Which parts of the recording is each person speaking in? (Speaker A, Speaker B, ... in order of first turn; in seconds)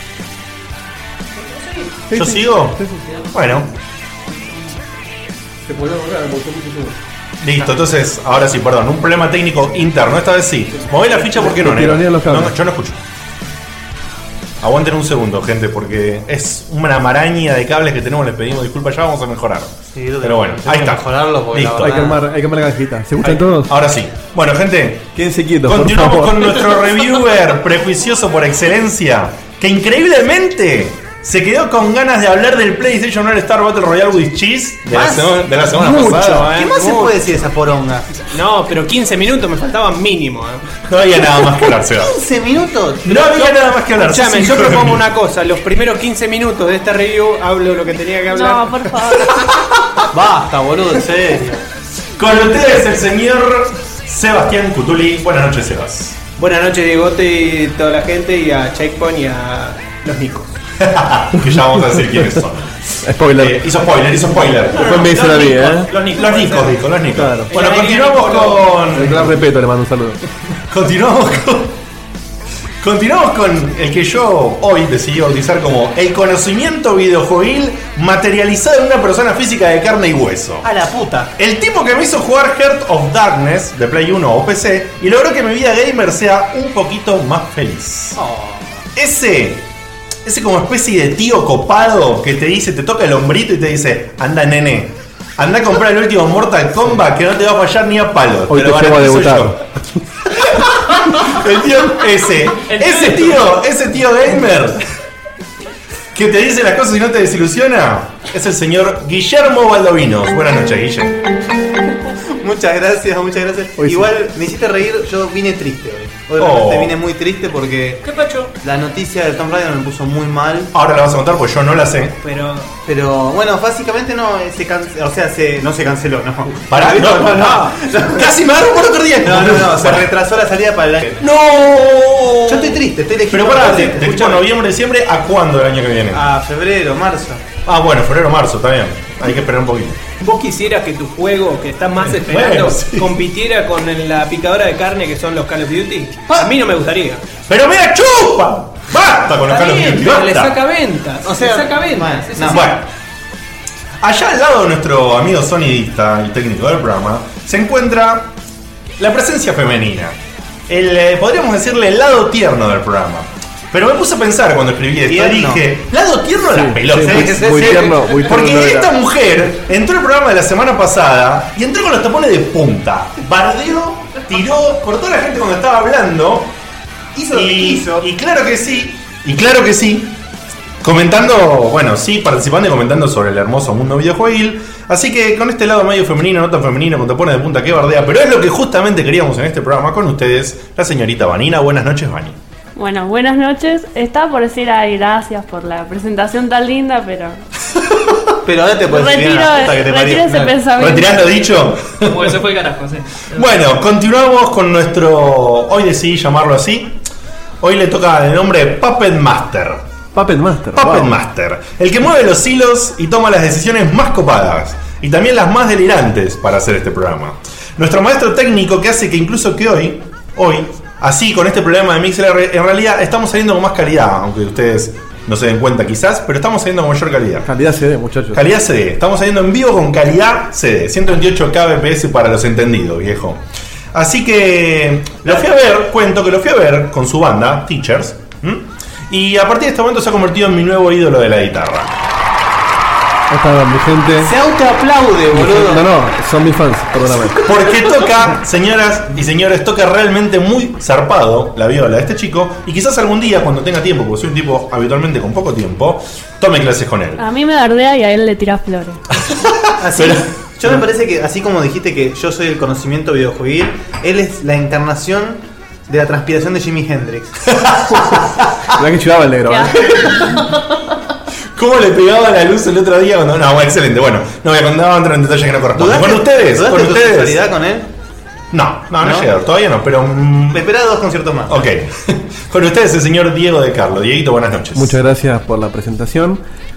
Speaker A: 1.5-1.9, 35.7-37.2, 38.3-40.7, 43.4-48.7, 56.4-60.5, 65.0-66.7, 67.5-68.9, 122.2-122.7, 140.2-147.2, 149.4-152.8, 177.4-178.0
Speaker B: 2.1-3.0, 5.7-6.9, 11.3-12.6, 21.8-23.7, 25.1-26.5, 61.4-62.2, 63.0-63.6, 64.8-65.9, 67.1-67.5, 68.9-70.2, 98.5-99.6, 113.8-114.1, 166.5-168.9, 210.1-211.1, 227.4-228.4, 243.3-244.3, 245.3-247.5, 268.7-270.2, 284.7-286.4
Speaker C: 2.1-2.8, 3.3-3.7, 7.4-13.0, 14.6-22.0, 23.2-25.1, 25.6-36.5, 40.9-42.1, 43.0-45.0, 52.2-56.2, 60.8-62.8, 63.3-69.4, 70.7-71.8, 72.8-80.7, 81.4-88.2, 88.9-89.7, 90.2-99.6, 100.3-104.8, 106.1-111.2, 116.4-117.0, 120.7-122.2, 126.7-130.1, 131.2-136.2, 137.6-140.0, 142.0-143.2, 147.5-150.6, 152.4-152.9, 154.0-158.3, 159.0-160.2, 160.7-176.5, 177.3-180.1, 180.8-192.4, 200.8-202.4, 203.3-207.0, 207.6-209.8, 210.7-227.5, 228.3-233.4, 233.9-241.9, 247.4-257.2, 259.3-260.3, 267.5-268.4, 271.5-277.4, 278.5-280.7, 281.5-285.0
Speaker D: 3.1-3.4, 4.3-4.8, 102.6-103.5, 118.0-118.5, 202.0-203.6
Speaker E: 19.9-22.2, 34.9-35.4, 36.3-38.1, 42.0-43.4, 50.1-51.6, 80.6-81.3, 88.1-88.8, 112.4-118.0, 118.6-120.7, 122.8-128.3, 129.2-131.2, 132.5-134.5, 136.1-137.4, 151.3-152.7, 165.1-165.6, 166.9-168.3, 177.2-177.4, 198.4-200.6, 244.2-245.8, 259.8-267.5, 275.7-277.9, 279.0-279.3, 280.5-281.6
Speaker F: 48.3-49.5, 192.8-197.4, 198.9-201.2, 257.2-259.0, 269.5-270.6